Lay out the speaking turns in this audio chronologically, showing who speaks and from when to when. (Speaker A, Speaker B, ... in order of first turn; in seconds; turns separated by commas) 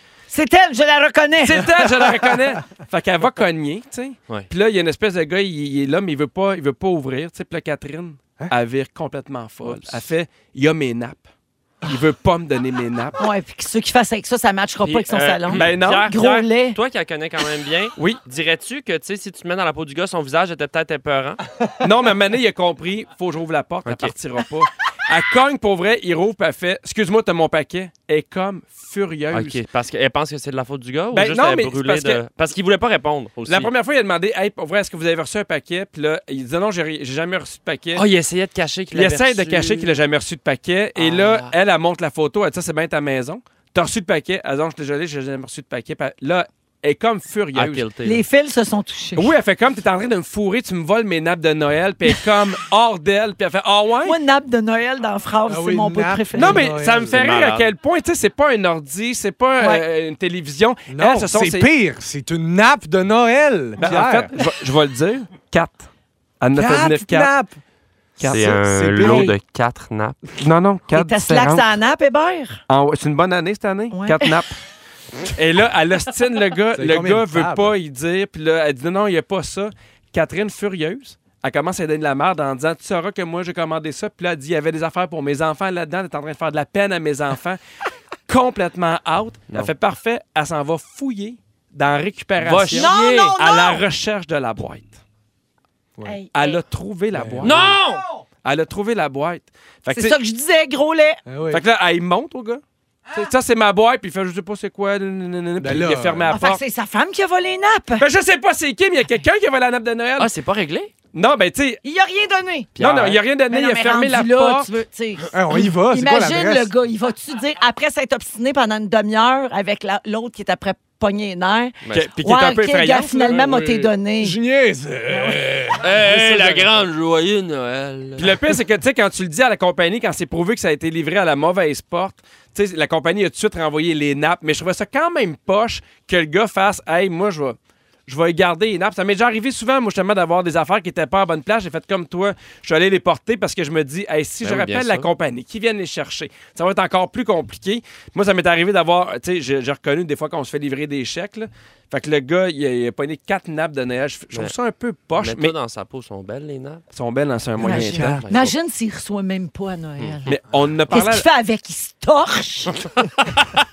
Speaker A: 0.3-1.7, Speaker B: 1.4-11.2, Speaker B: 11.8-13.2, Speaker A: 13.2-16.8, Speaker C: 14.8-21.4, Speaker B: 15.5-16.1, Speaker B: 21.8-29.6, Speaker C: 23.9-24.1, Speaker C: 29.3-33.7, Speaker B: 31.1-32.2, Speaker B: 33.5-38.0, Speaker C: 38.0-40.0, Speaker B: 38.9-47.9, Speaker C: 41.0-41.5, Speaker C: 47.5-48.2, Speaker A: 48.0-49.3, Speaker B: 49.2-54.2, Speaker A: 54.0-56.7, Speaker D: 55.5-57.2, Speaker B: 56.4-61.7, Speaker C: 57.1-57.7, Speaker D: 60.9-64.3, Speaker B: 63.8-65.9, Speaker B: 66.4-67.3, Speaker D: 66.5-67.6, Speaker B: 68.2-69.2, Speaker D: 68.2-69.3, Speaker C: 68.3-70.3, Speaker A: 69.0-69.3, Speaker B: 70.4-71.7, Speaker A: 70.9-72.6, Speaker B: 72.7-74.5, Speaker A: 73.9-74.4, Speaker B: 75.3-87.6, Speaker D: 76.7-77.8, Speaker B: 88.3-95.0, Speaker C: 92.4-93.4, Speaker A: 92.7-93.8, Speaker A: 96.0-96.6, Speaker B: 96.3-97.8, Speaker D: 97.1-97.7, Speaker C: 97.4-98.0, Speaker B: 98.4-100.2, Speaker A: 99.9-101.2, Speaker D: 101.3-101.6, Speaker B: 101.5-102.6, Speaker B: 103.1-106.6, Speaker D: 105.6-106.4, Speaker A: 106.3-108.0, Speaker B: 108.0-110.3, Speaker C: 110.2-110.9, Speaker B: 111.1-111.8, Speaker A: 111.8-112.8, Speaker C: 112.8-113.2, Speaker B: 112.8-114.7, Speaker A: 113.5-124.4, Speaker D: 115.3-116.7, Speaker C: 121.8-122.1, Speaker B: 121.9-123.9, Speaker D: 124.2-126.8, Speaker A: 125.1-125.4, Speaker C: 125.8-128.3, Speaker B: 128.2-155.5, Speaker C: 144.4-145.1, Speaker C: 155.2-156.8, Speaker B: 156.9-158.2, Speaker C: 157.6-158.6, Speaker A: 157.6-160.4, Speaker B: 160.3-161.3, Speaker A: 160.9-162.7